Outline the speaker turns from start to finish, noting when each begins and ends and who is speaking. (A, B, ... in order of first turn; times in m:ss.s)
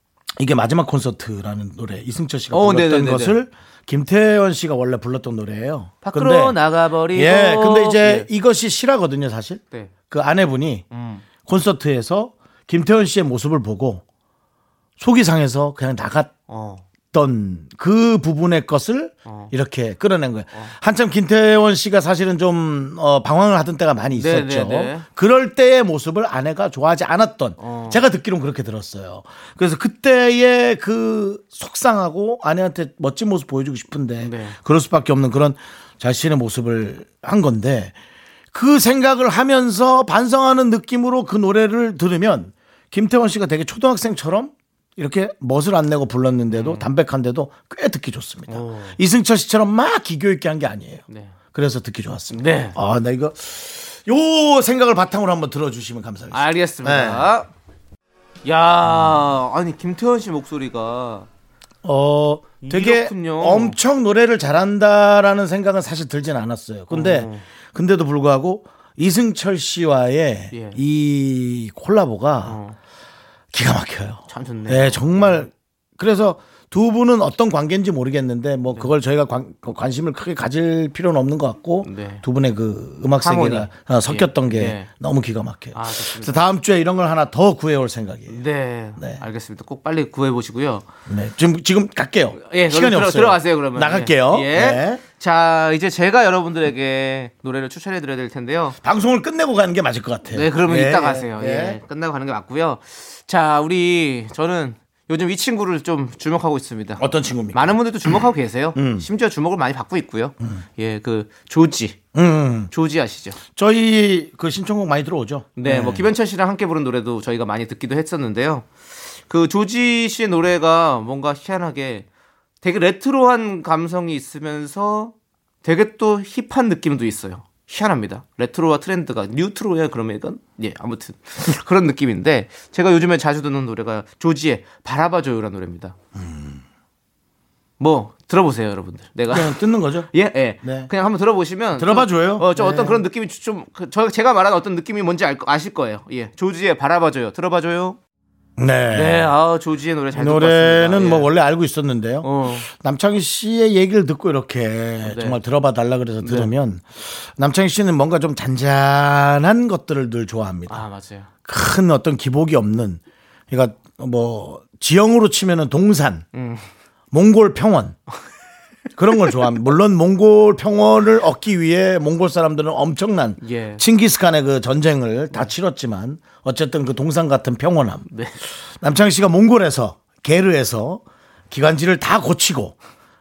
0:00.4-0:06.6 A
0:02.5-0:03.4 B
0:06.0-0:08.3 B
0:07.1-0:10.9 A
0:10.9-0:11.2 B
0:11.4-0:14.0 A
0:15.0-0:16.3 A
0:16.5-0:16.8 B
0:17.1-0:37.9 A
0:19.3-0:19.5 B
0:24.2-0:25.0 B
0:27.6-0:28.0 B
0:34.2-0:34.6 B
0:38.5-0:57.3 A
0:46.5-0:46.9 B
0:48.5-0:49.0 B
0:51.1-0:51.4 B
0:52.3-0:52.8 B
0:56.3-0:57.5 B
0:58.4-1:01.3 B
1:01.8-1:12.6 A
1:02.6-1:03.8 B
1:06.9-1:07.4 B
1:10.5-1:10.8 B
1:12.4-1:12.8 B
1:13.5-1:28.4 A
1:14.3-1:15.4 B
1:21.8-1:22.2 B
1:23.2-1:24.9 B
1:25.7-1:26.4 B
1:28.3-1:30.9 B
1:31.1-1:35.0 A
1:32.4-1:38.8 B
1:38.8-1:41.8 A
1:40.3-1:52.0 B
1:47.0-1:47.8 A
1:48.8-1:49.1 A
1:52.2-1:52.7 A
1:52.7-1:53.4 B
1:53.6-1:56.1 A
1:55.6-1:58.7 B
1:59.3-2:02.1 B
2:02.6-2:05.1 B
2:05.6-2:16.0 B
2:16.2-2:16.6 A
2:17.8-2:28.0 B
2:19.3-2:20.1 A
2:20.6-2:20.9 A
2:21.8-2:23.0 A
2:28.6-2:29.3 A
2:28.9-2:31.3 B
2:30.1-2:40.8 A
2:32.2-2:32.7 B
2:35.0-2:35.4 B
2:36.2-2:36.5 B
2:40.7-2:41.3 B
2:41.4-2:46.2 A
2:46.3-2:46.7 B
2:47.1-2:48.0 A
2:49.0-3:02.8 A
2:53.4-2:53.8 B